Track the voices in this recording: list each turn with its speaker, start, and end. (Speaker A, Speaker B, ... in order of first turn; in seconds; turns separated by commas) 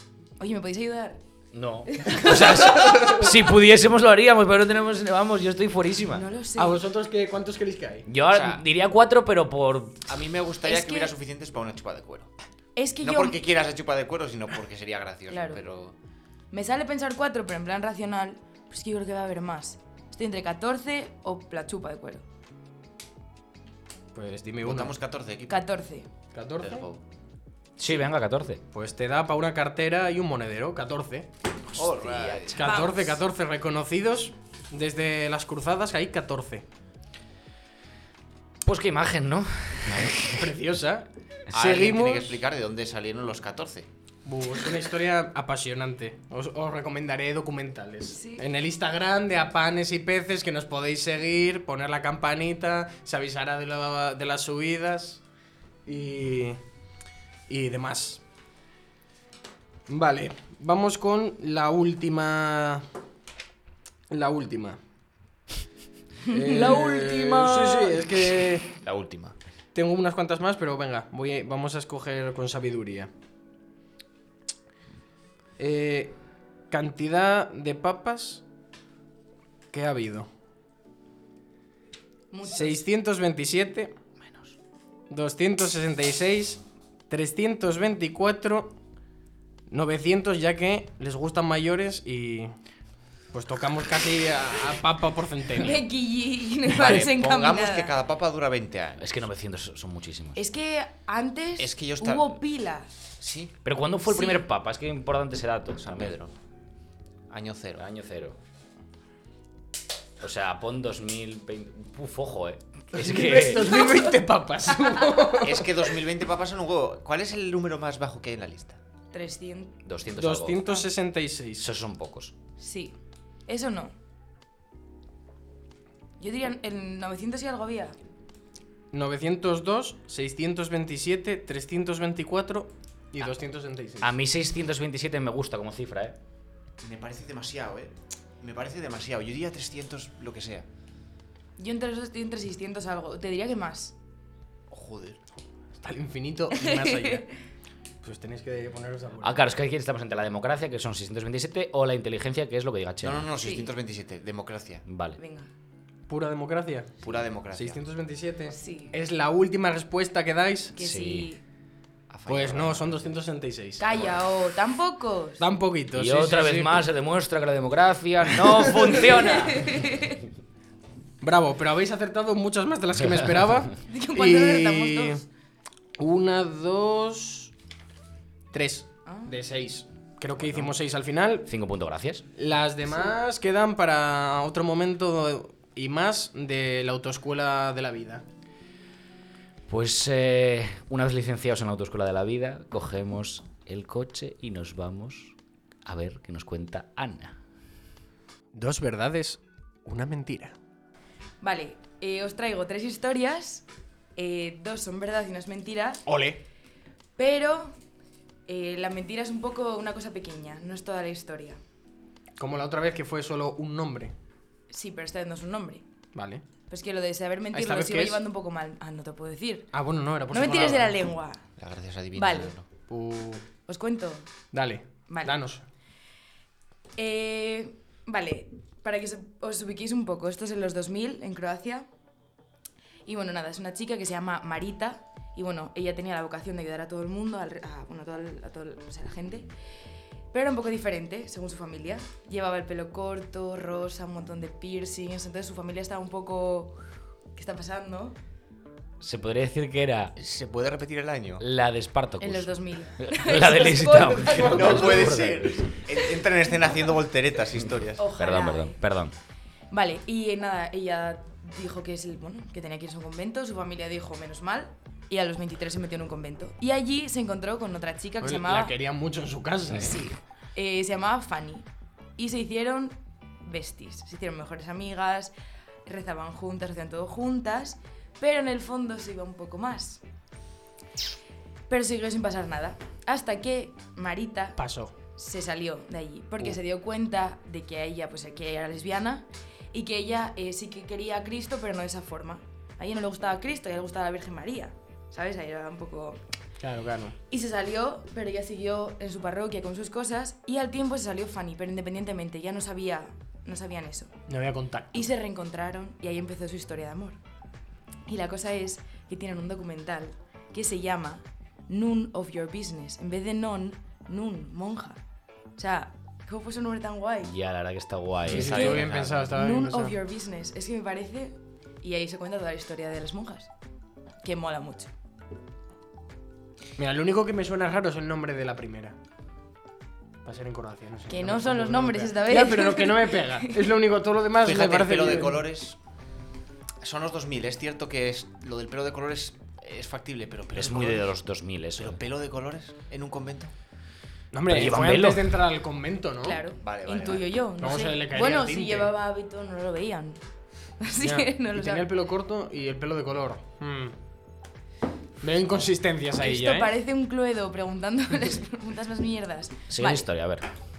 Speaker A: 0.4-1.2, Speaker B: 1.5-6.2, Speaker A: 1.9-3.2, Speaker C: 2.7-3.2, Speaker A: 6.1-6.8, Speaker C: 6.6-8.1, Speaker B: 8.1-10.1, Speaker D: 8.3-8.6, Speaker D: 10.1-12.3, Speaker A: 10.6-11.1, Speaker A: 12.8-13.4, Speaker D: 13.0-15.9, Speaker A: 15.3-15.6, Speaker A: 16.5-22.2, Speaker C: 24.1-25.0, Speaker D: 24.6-25.6, Speaker A: 25.5-26.1, Speaker C: 26.3-26.9, Speaker D: 26.6-27.0, Speaker B: 27.8-28.6, Speaker C: 28.7-31.3, Speaker B: 31.7-32.6, Speaker D: 31.8-32.7, Speaker C: 32.5-36.6, Speaker A: 32.6-33.2, Speaker B: 38.6-40.3, Speaker D: 39.9-40.3, Speaker C: 40.2-42.4, Speaker D: 41.5-43.9, Speaker C: 44.2-55.2, Speaker A: 48.1-48.5, Speaker C: 55.9-56.6, Speaker C: 57.5-58.2, Speaker C: 59.9-62.8, Speaker C: 64.1-64.8, Speaker A: 66.3-67.9, Speaker C: 66.3-68.7, Speaker D: 68.8-69.4, Speaker C: 69.7-73.1, Speaker C: 75.6-76.2, Speaker C: 76.7-78.4, Speaker C: 79.7-80.3, Speaker A: 82.3-82.8, Speaker C: 82.5-83.9, Speaker C: 85.1-88.8, Speaker C: 89.7-92.5, Speaker C: 93.3-95.8, Speaker A: 95.5-97.9, Speaker D: 96.7-99.1, Speaker B: 99.0-100.4, Speaker A: 100.4-102.9, Speaker D: 101.6-102.4, Speaker D: 103.2-103.5, Speaker B: 103.6-106.2, Speaker A: 104.1-104.4, Speaker D: 105.8-106.3, Speaker D: 107.3-107.8, Speaker B: 107.8-108.4, Speaker B: 110.2-113.9, Speaker C: 112.9-115.8, Speaker D: 115.4-118.8, Speaker A: 119.1-119.7, Speaker B: 119.9-120.8, Speaker C: 120.2-121.7, Speaker B: 121.6-122.3, Speaker A: 122.6-123.0, Speaker A: 123.5-124.0, Speaker A: 126.2-128.0, Speaker C: 128.9-134.1, Speaker B: 134.0-136.2, Speaker D: 136.8-140.7, Speaker A: 141.6-143.9, Speaker D: 144.7-145.2, Speaker C: 145.8-147.3, Speaker A: 146.6-147.2, Speaker C: 148.0-149.4, Speaker B: 149.2-153.3, Speaker D: 153.0-154.8, Speaker A: 153.4-153.7, Speaker B: 154.9-155.2, Speaker A: 155.2-155.5, Speaker C: 156.1-156.9, Speaker D: 157.0-157.8, Speaker C: 157.5-160.8, Speaker A: 158.5-158.9, Speaker A: 160.8-161.4, Speaker B: 160.8-161.3, Speaker D: 162.1-163.1, Speaker C: 162.3-163.8, Speaker A: 163.8-165.4, Speaker C: 165.4-166.8, Speaker B: 165.9-169.9, Speaker A: 169.0-170.2, Speaker C: 171.2-175.2, Speaker A: 173.9-175.2, Speaker C: 176.0-177.5, Speaker C: 178.5-181.5, Speaker A: 179.1-179.4, Speaker B: 181.5-182.2, Speaker C: 182.4-188.2, Speaker B: 189.7-195.3, Speaker B: 195.9-197.4, Speaker C: 198.5-200.6, Speaker A: 201.4-203.7, Speaker A: 204.2-206.1, Speaker C: 206.1-206.4, Speaker A: 207.2-207.8, Speaker A: 208.5-211.6, Speaker C: 212.4-214.1, Speaker A: 214.7-215.8, Speaker C: 216.2-216.4, Speaker A: 216.7-219.7, Speaker C: 217.5-218.2, Speaker C: 219.7-221.1, Speaker A: 220.3-221.4, Speaker D: 221.6-222.7, Speaker A: 222.2-222.6, Speaker C: 222.9-223.4, Speaker A: 223.7-224.3, Speaker C: 224.5-225.6, Speaker A: 225.1-225.4, Speaker A: 227.0-231.9, Speaker A: 233.1-239.5, Speaker A: 240.3-246.8, Speaker A: 247.3-248.2, Speaker B: 249.0-250.2, Speaker D: 250.2-251.4, Speaker B: 251.4-255.8, Speaker A: 252.2-255.2, Speaker D: 254.4-258.1, Speaker A: 258.0-258.8, Speaker B: 258.2-259.1, Speaker A: 259.7-268.8, Speaker C: 268.2-270.1, Speaker A: 269.7-275.3, Speaker A: 275.9-280.0, Speaker A: 281.7-284.6, Speaker C: 284.6-284.9, Speaker A: 285.1-296.2, Speaker C: 296.6-297.2, Speaker A: 297.3-304.1, Speaker C: 304.3-305.1, Speaker A: 304.9-307.2, Speaker A: 308.1-315.0, Speaker A: 315.6-317.3, Speaker B: 317.2-319.1, Speaker C: 318.3-320.0, Speaker D: 318.3-319.2, Speaker A: 318.4-323.5, Speaker A: 324.2-324.9, Speaker C: 326.8-329.0, Speaker C: 330.2-335.4, Speaker A: 331.1-333.6, Speaker D: 334.4-335.8, Speaker D: 336.8-341.1, Speaker B: 340.6-342.0, Speaker D: 341.8-343.5, Speaker C: 344.3-346.4, Speaker B: 344.5-345.4, Speaker A: 346.2-350.2, Speaker D: 346.6-347.3, Speaker C: 347.6-348.9, Speaker A: 350.8-351.9, Speaker C: 351.0-354.0, Speaker C: 355.2-356.7, Speaker A: 356.2-360.1, Speaker B: 359.7-360.5